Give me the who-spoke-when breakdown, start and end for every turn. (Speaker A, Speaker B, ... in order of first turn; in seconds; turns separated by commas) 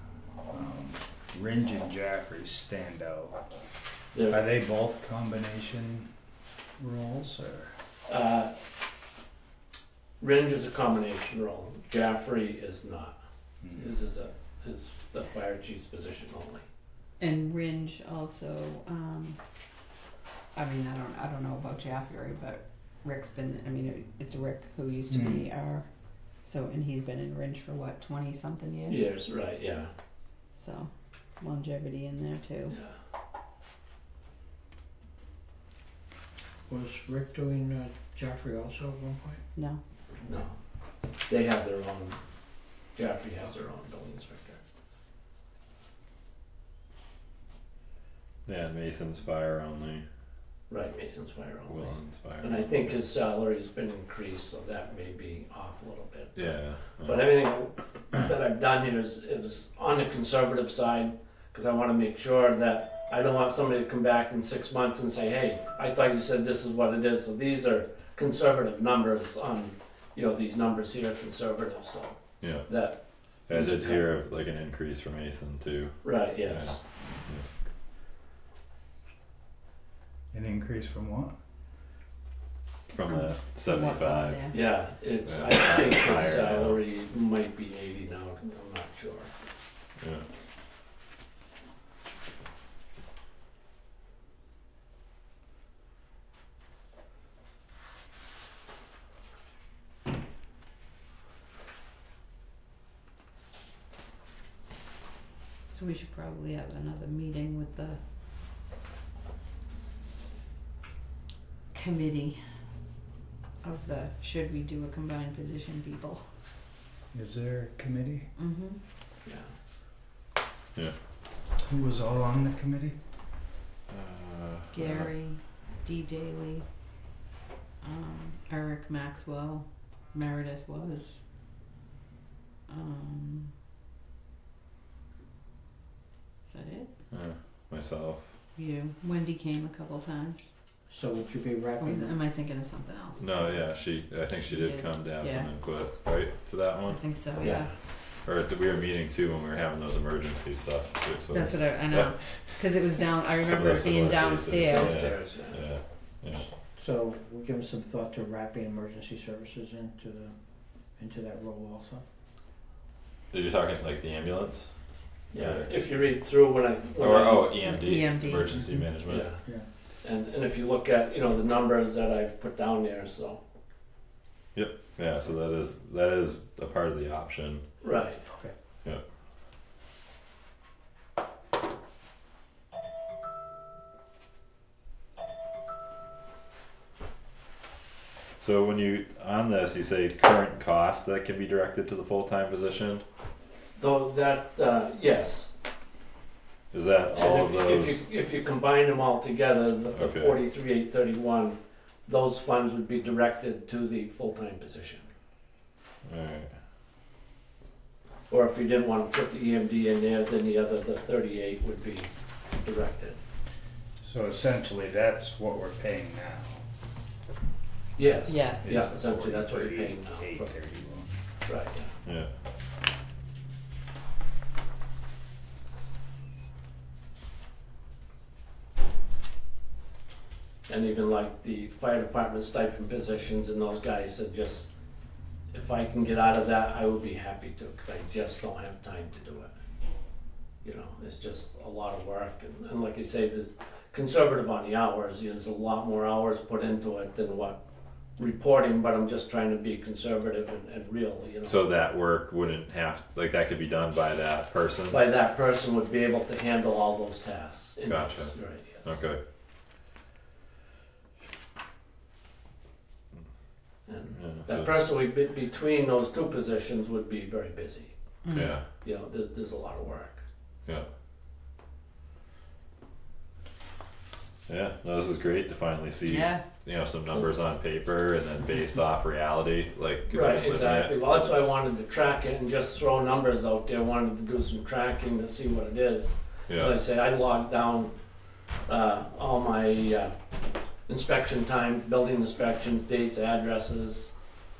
Speaker A: 0.5-3.4, Speaker B: 4.1-4.5, Speaker A: 4.3-6.1, Speaker A: 6.8-7.7, Speaker B: 8.1-8.5, Speaker B: 10.2-13.2, Speaker A: 13.6-13.9, Speaker B: 13.8-16.6, Speaker C: 17.2-19.4, Speaker C: 20.5-25.9, Speaker A: 25.1-25.4, Speaker C: 26.4-29.1, Speaker B: 28.9-29.9, Speaker C: 30.5-32.8, Speaker D: 36.7-39.4, Speaker C: 39.5-39.8, Speaker B: 40.2-40.5, Speaker B: 41.3-42.2, Speaker B: 42.9-44.6, Speaker E: 48.5-50.0, Speaker B: 50.7-56.5, Speaker E: 51.6-52.9, Speaker E: 56.3-57.3, Speaker B: 57.0-74.1, Speaker E: 72.4-72.7, Speaker E: 73.5-77.5, Speaker B: 76.0-76.8, Speaker A: 80.3-81.3, Speaker E: 82.9-84.5, Speaker C: 83.1-84.7, Speaker B: 84.5-89.3, Speaker E: 85.2-86.8, Speaker E: 90.0-90.2, Speaker C: 105.7-108.0, Speaker C: 111.7-112.4, Speaker C: 113.6-116.2, Speaker A: 117.1-118.3, Speaker C: 118.4-118.8, Speaker B: 119.2-119.5, Speaker A: 121.6-123.0, Speaker E: 123.9-125.1, Speaker C: 124.7-126.6, Speaker C: 127.8-131.2, Speaker C: 132.7-133.5, Speaker C: 136.5-136.9, Speaker E: 137.1-138.3, Speaker C: 138.6-140.5, Speaker D: 140.9-142.2, Speaker C: 141.8-143.6, Speaker E: 143.2-147.0, Speaker C: 144.4-145.5, Speaker C: 146.9-147.7, Speaker B: 147.4-147.7, Speaker E: 148.0-152.6, Speaker C: 151.3-155.2, Speaker E: 153.3-156.4, Speaker B: 154.6-155.6, Speaker D: 156.4-160.3, Speaker D: 160.9-162.0, Speaker E: 163.3-164.7, Speaker B: 165.3-167.6, Speaker E: 165.3-165.7, Speaker E: 167.0-169.3, Speaker C: 167.6-168.9, Speaker B: 169.0-169.4, Speaker D: 169.2-169.7, Speaker B: 170.0-173.4, Speaker E: 174.5-177.6, Speaker B: 177.8-178.2, Speaker D: 178.2-178.5, Speaker E: 188.4-193.0, Speaker B: 193.8-195.5, Speaker E: 196.7-198.0, Speaker B: 197.1-205.1, Speaker E: 199.9-200.4, Speaker E: 206.0-206.5, Speaker B: 208.3-212.1, Speaker B: 212.6-213.2, Speaker A: 214.0-216.6, Speaker B: 218.0-220.5, Speaker C: 218.2-218.7, Speaker A: 218.6-221.1, Speaker B: 221.4-221.9, Speaker E: 222.0-222.3, Speaker B: 230.7-234.7, Speaker B: 235.5-239.5, Speaker B: 240.6-247.6, Speaker B: 248.2-251.6, Speaker E: 251.4-255.0, Speaker B: 254.9-258.9, Speaker E: 257.9-259.2, Speaker B: 263.9-267.9, Speaker E: 264.1-264.7, Speaker C: 268.2-268.5, Speaker E: 268.3-268.6, Speaker B: 268.8-270.2, Speaker E: 274.5-281.4, Speaker C: 276.0-276.4, Speaker B: 280.1-287.9, Speaker E: 286.5-286.7, Speaker B: 288.7-290.1, Speaker B: 290.9-294.1